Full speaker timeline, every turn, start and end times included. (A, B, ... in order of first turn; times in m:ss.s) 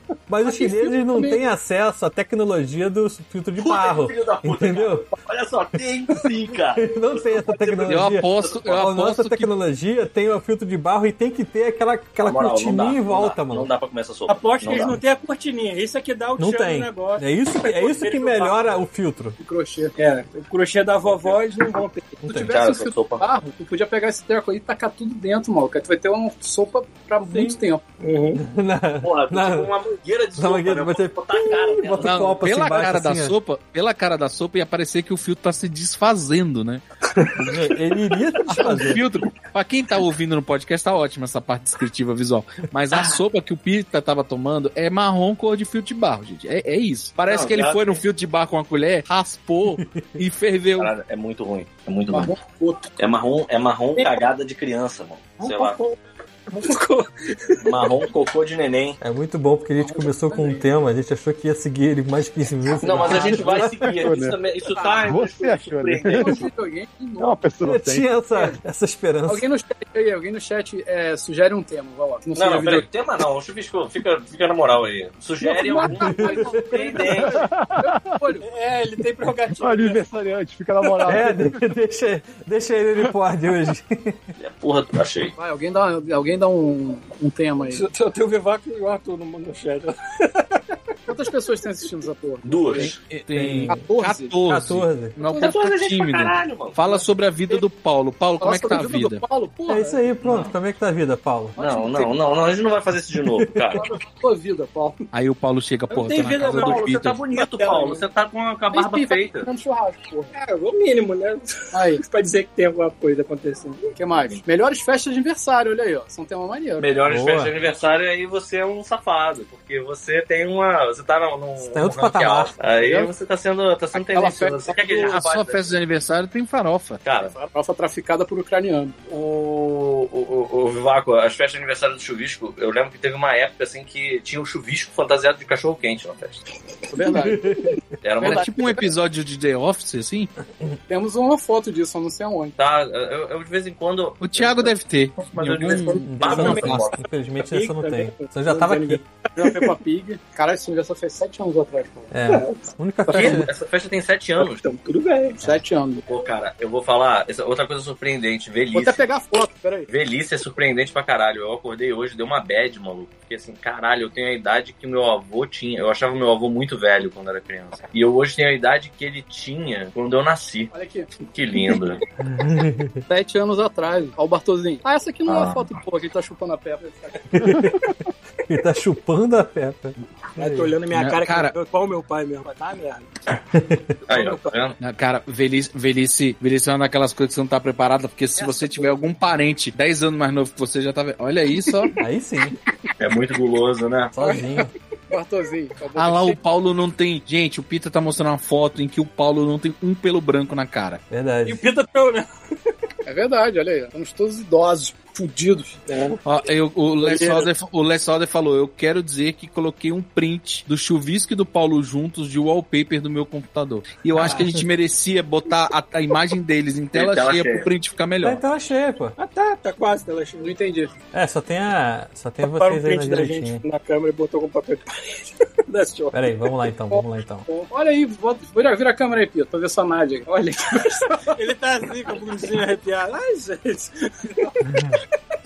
0:00.3-0:05.1 A
0:00.4-0:01.4 B
0:03.6-0:08.8 C
0:06.8-0:13.7 A
0:07.8-0:09.5 D
0:12.2-0:15.0 C
0:14.3-0:18.6 E
0:16.4-0:19.4 A
0:19.4-0:19.9 B
0:20.0-0:22.2 E
0:22.2-0:27.9 B
0:22.3-0:23.2 C
0:27.3-0:27.6 A
0:28.0-0:28.4 E
0:28.4-0:29.7 A
0:29.0-0:32.3 C
0:30.4-0:33.4 A
0:32.0-0:36.8 D
0:37.2-0:39.0 A
0:38.5-0:50.9 D
0:42.9-0:43.2 C
0:47.2-0:48.0 C
0:49.8-0:50.2 A
0:50.8-0:52.3 C
0:52.1-0:52.9 B
0:53.0-0:55.8 C
0:55.4-0:56.0 E
0:56.5-0:57.9 E
0:57.6-0:59.0 C
0:59.0-1:03.9 A
0:59.8-1:00.6 B
1:02.8-1:06.5 C
1:03.0-1:03.4 B
1:03.7-1:04.4 F
1:04.7-1:05.2 B
1:05.0-1:06.4 F
1:06.1-1:07.4 B
1:07.2-1:08.1 F
1:07.6-1:09.4 A
1:09.2-1:12.9 B
1:12.3-1:17.5 C
1:15.4-1:18.4 B
1:16.0-1:16.7 A
1:17.3-1:18.2 F
1:18.4-1:20.0 E
1:19.5-1:21.6 F
1:21.0-1:24.2 A
1:24.4-1:25.3 C
1:25.4-1:27.8 B
1:27.7-1:30.6 E
1:31.1-1:32.9 B
1:32.4-1:33.0 C
1:32.8-1:39.2 D
1:33.3-1:33.9 A
1:33.7-1:34.3 B
1:34.4-1:35.2 A
1:35.2-1:35.5 B
1:35.3-1:36.8 C
1:38.4-1:40.0 B
1:39.7-1:41.6 A
1:40.2-1:40.5 C
1:41.6-1:42.1 B
1:41.6-1:43.9 C
1:43.7-1:45.0 B
1:45.1-1:47.2 D
1:46.0-1:49.5 C
1:46.1-1:46.7 E
1:47.3-1:48.0 E
1:48.7-1:50.3 B
1:50.3-1:53.9 E
1:51.7-1:52.0 B
1:54.0-1:57.0 B
1:56.8-2:05.8 C
1:57.0-1:57.5 A
2:01.6-2:02.5 A
2:02.7-2:03.1 B
2:03.9-2:05.2 B
2:04.9-2:07.0 D
2:07.0-2:07.4 C
2:07.2-2:08.9 B
2:09.1-2:16.4 C
2:16.9-2:17.6 B
2:17.3-2:17.7 A
2:18.0-2:18.9 C
2:18.2-2:18.7 B
2:18.2-2:20.3 D
2:20.9-2:22.5 B
2:22.6-2:27.0 C
2:24.2-2:26.9 D
2:25.7-2:26.0 B
2:26.0-2:29.0 A
2:27.4-2:29.7 E
2:29.4-2:32.1 B
2:32.1-2:33.5 A
2:32.3-2:33.3 E
2:33.1-2:34.6 C
2:34.4-2:35.4 E
2:35.4-2:36.0 B
2:36.0-2:39.0 C
2:38.7-2:39.9 B
2:39.9-2:50.7 C
2:50.7-2:51.1 B
2:51.2-2:52.0 C
2:52.2-2:53.0 A
2:53.1-2:57.6 B
2:55.3-2:55.6 C
2:57.3-2:57.9 A
2:58.5-3:00.7 A
3:00.4-3:03.1 E
3:00.9-3:01.5 D
3:03.5-3:04.0 A
3:04.1-3:04.5 E
3:04.1-3:04.8 C
3:04.8-3:11.9 D
3:08.4-3:08.9 B
3:12.0-3:12.6 A
3:13.0-3:14.2 C
3:14.1-3:14.7 A
3:15.1-3:16.4 B
3:16.0-3:21.0 D
3:21.1-3:21.6 A
3:21.4-3:22.3 E
3:23.0-3:25.8 B
3:25.9-3:26.2 E
3:26.2-3:38.4 D
3:27.0-3:27.4 B
3:36.9-3:37.7 C
3:38.2-3:39.2 A
3:39.2-3:40.5 E
3:40.4-3:40.9 B
3:41.1-3:43.6 A
3:42.4-3:46.2 E
3:46.1-3:47.4 A
3:46.9-3:51.3 B
3:51.1-3:54.5 E
3:54.6-3:55.0 A